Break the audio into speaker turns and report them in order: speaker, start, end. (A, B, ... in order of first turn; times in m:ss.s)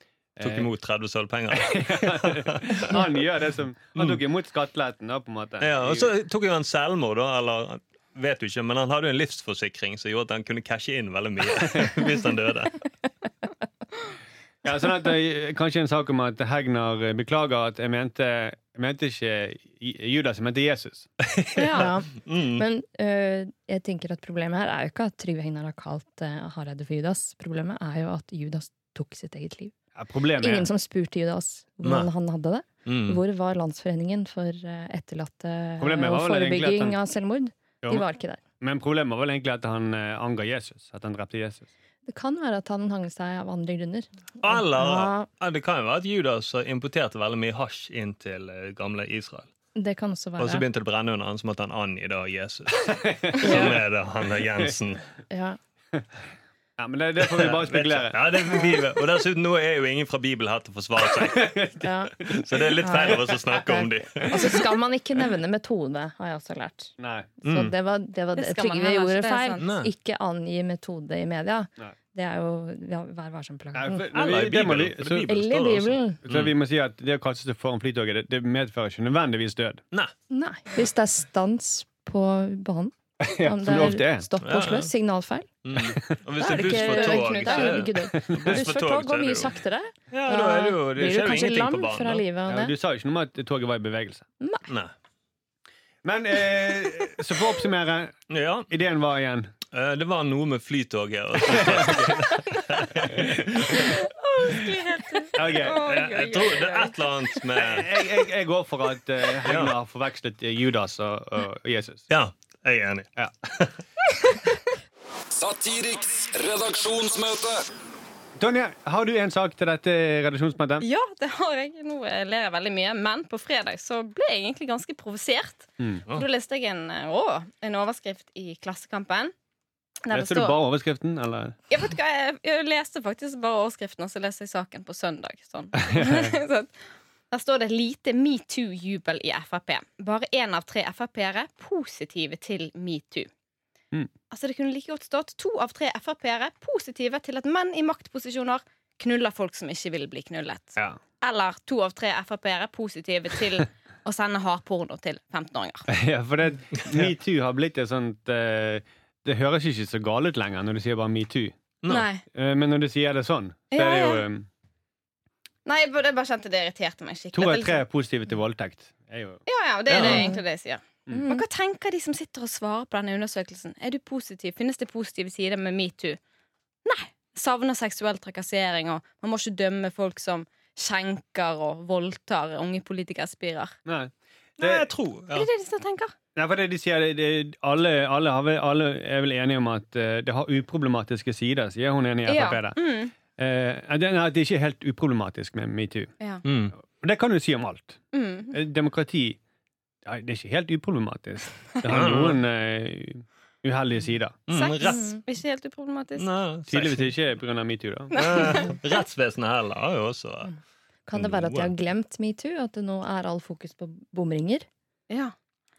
0:00.4-0:00.7 A
0:00.4-0:02.9 B
0:01.5-0:06.1 A
0:05.6-0:12.8 B
0:11.5-0:12.0 A
0:14.6-0:21.1 A
0:21.2-0:22.6 B
0:21.6-0:21.9 C
0:21.6-0:29.7 D
0:29.9-0:30.7 A
0:30.4-0:38.4 D
0:31.8-0:32.1 B
0:32.8-0:33.2 B
0:35.8-0:37.0 A
0:38.6-0:41.7 A
0:42.0-0:45.3 D
0:44.4-0:49.5 B
0:49.7-0:50.6 D
0:50.4-0:55.0 B
0:52.8-0:53.7 A
0:53.4-0:53.8 D
0:55.3-0:55.6 D
0:56.8-0:58.7 A
0:57.2-1:04.5 B
1:01.0-1:03.2 A
1:01.8-1:02.1 D
1:02.8-1:14.1 D
1:07.0-1:07.4 A
1:07.4-1:07.7 B
1:08.4-1:09.7 C
1:09.6-1:09.9 B
1:13.7-1:15.3 A
1:14.1-1:16.5 B
1:15.2-1:16.2 D
1:16.2-1:19.8 A
1:20.3-1:25.5 D
1:23.2-1:24.3 A
1:24.4-1:24.9 B
1:25.6-1:29.5 B
1:26.4-1:32.7 D
1:26.9-1:27.4 C
1:27.7-1:28.6 A
1:30.1-1:32.2 B
1:32.5-1:34.2 A
1:36.0-1:38.2 A
1:38.3-1:38.7 B
1:38.7-1:39.5 A
1:39.7-1:43.8 B
1:41.4-1:42.2 A
1:43.0-1:43.9 A
1:43.6-1:47.1 C
1:45.3-1:45.9 A
1:45.4-1:48.0 B
1:47.6-1:52.1 A
1:49.4-1:49.7 B
1:52.1-1:53.8 B
1:55.3-1:57.7 C
1:58.4-2:00.9 A
2:00.8-2:09.3 C
2:10.0-2:10.6 C
2:10.1-2:11.6 A
2:11.7-2:16.7 C
2:15.8-2:16.3 A
2:17.3-2:23.3 C
2:24.3-2:35.9 C
2:35.9-2:41.6 A
2:41.8-2:42.1 B
2:41.9-2:42.2 C
2:42.3-2:44.5 A
2:43.7-2:44.2 C
2:45.6-2:47.8 C
2:47.3-2:49.4 A
2:49.5-2:56.2 C
2:49.9-2:50.3 B
2:50.0-2:50.4 D
2:56.8-3:03.7 C
3:03.8-3:04.9 A
3:04.6-3:05.5 B
3:05.3-3:06.1 C
3:06.3-3:12.8 A
3:12.2-3:13.1 C
3:13.4-3:16.1 A
3:16.4-3:16.7 B
3:16.8-3:19.4 A
3:18.1-3:18.6 C
3:20.0-3:24.4 A
3:21.8-3:22.4 B
3:24.5-3:25.2 B
3:24.5-3:26.3 C
3:24.8-3:25.2 D
3:26.2-3:27.1 B
3:26.7-3:28.6 A
3:28.1-3:28.8 C
3:28.1-3:30.5 B
3:31.1-3:34.6 D
3:31.1-3:31.7 B